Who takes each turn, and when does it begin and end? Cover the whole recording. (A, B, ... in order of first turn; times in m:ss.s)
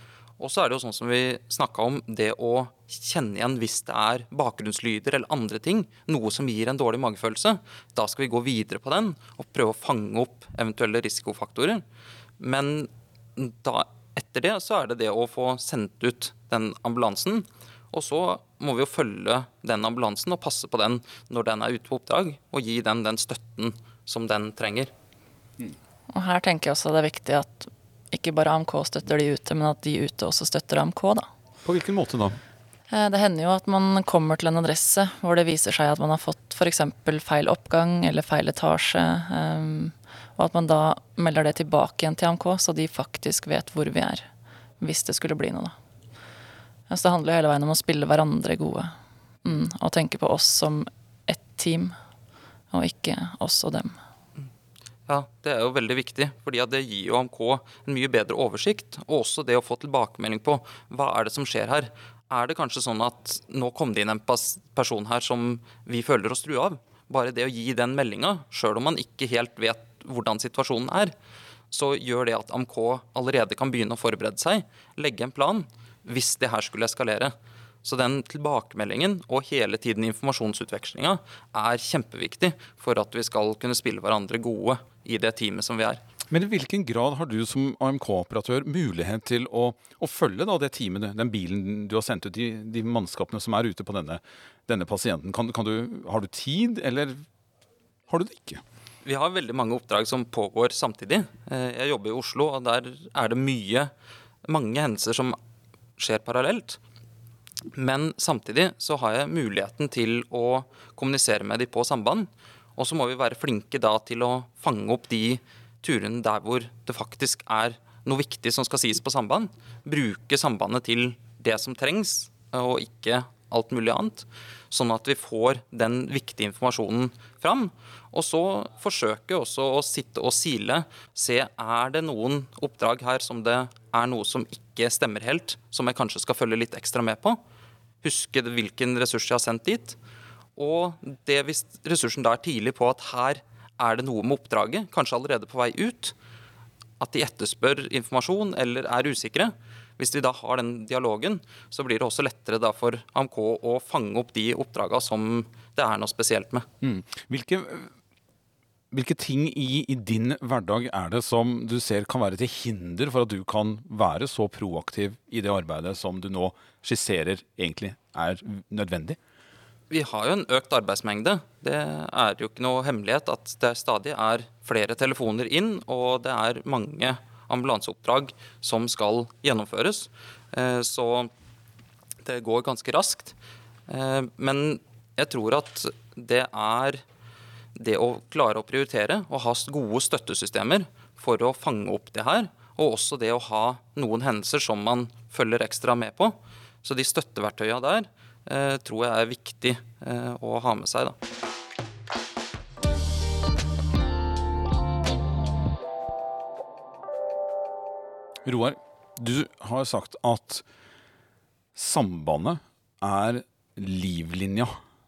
0:00.4-0:11.8 A
0:12.4-0:24.9 A
0:26.1-0:31.3 B
0:31.6-0:32.4 C
0:32.9-0:44.3 B
0:44.8-0:45.7 B
0:46.9-0:51.9 B
0:52.7-0:53.9 B
0:55.1-1:11.1 A
1:11.7-1:26.0 A
1:26.3-1:37.2 C
1:38.1-1:38.6 C
1:39.0-1:43.9 A
1:44.4-1:45.4 A
1:46.0-1:46.8 A
1:47.7-2:17.4 A
2:18.0-2:20.0 A
2:20.6-2:26.1 A
2:27.0-2:36.6 A
2:36.8-2:37.9 C
2:38.9-2:49.2 C
2:49.9-3:01.3 A
3:02.2-3:03.3 A
3:03.9-3:07.0 A
3:07.7-3:21.2 A
3:28.4-3:30.6 C
3:31.7-3:34.8 C